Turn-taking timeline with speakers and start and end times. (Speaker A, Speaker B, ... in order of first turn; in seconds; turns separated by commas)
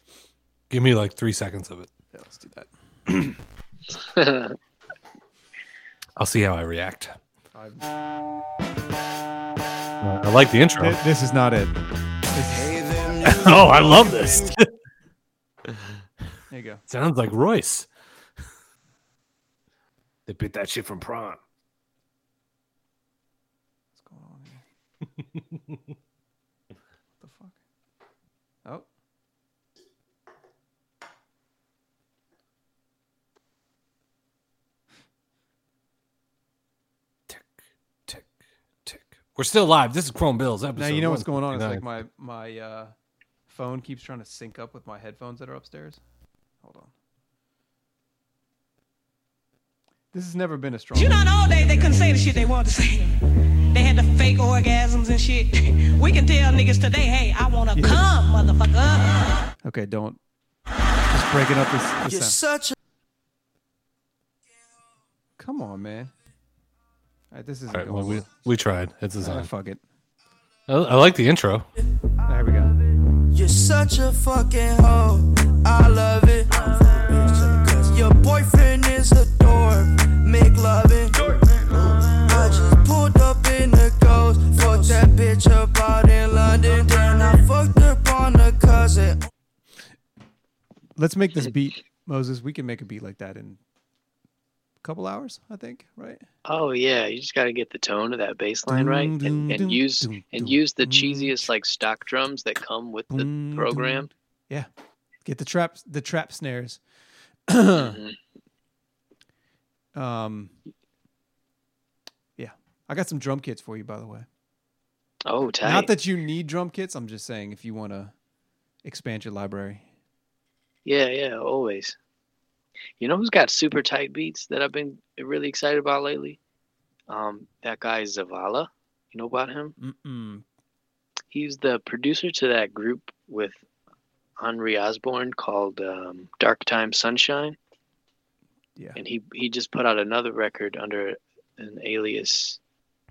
Speaker A: 0.7-1.9, Speaker B: 2.1-2.7, Speaker C: 4.0-4.6, Speaker A: 6.2-7.2, Speaker B: 7.5-7.8, Speaker A: 10.0-11.0, Speaker B: 10.8-11.8, Speaker B: 12.3-12.8, Speaker D: 12.7-13.3, Speaker A: 13.2-14.7, Speaker A: 15.7-15.9, Speaker B: 16.5-16.8, Speaker A: 16.9-17.9, Speaker A: 20.3-21.4, Speaker B: 23.9-24.6, Speaker B: 27.2-27.6, Speaker A: 38.9-42.0, Speaker B: 40.8-42.9, Speaker B: 43.5-46.0, Speaker B: 46.6-46.9, Speaker B: 50.1-52.3, Speaker E: 50.9-53.2, Speaker E: 53.7-59.5, Speaker B: 57.8-58.1, Speaker B: 59.6-60.2, Speaker B: 61.1-62.4, Speaker D: 62.0-62.8, Speaker B: 65.4-66.1, Speaker B: 67.3-68.3, Speaker A: 67.7-69.5, Speaker B: 69.2-69.8, Speaker A: 70.7-71.7, Speaker B: 72.3-72.7, Speaker D: 73.3-89.2, Speaker B: 91.0-93.6, Speaker B: 94.8-96.3, Speaker C: 96.5-104.1, Speaker B: 98.7-101.5, Speaker B: 103.1-104.7, Speaker B: 105.2-106.8, Speaker B: 107.5-108.0, Speaker C: 107.8-108.2, Speaker B: 110.0-110.6, Speaker B: 112.4-114.3, Speaker C: 115.2-115.9, Speaker B: 115.6-118.1, Speaker B: 118.8-119.8, Speaker C: 120.8-122.0, Speaker C: 123.0-126.4, Speaker C: 127.1-129.8, Speaker B: 129.8-130.4, Speaker C: 131.3-133.6, Speaker C: 134.4-137.6, Speaker C: 139.0-142.6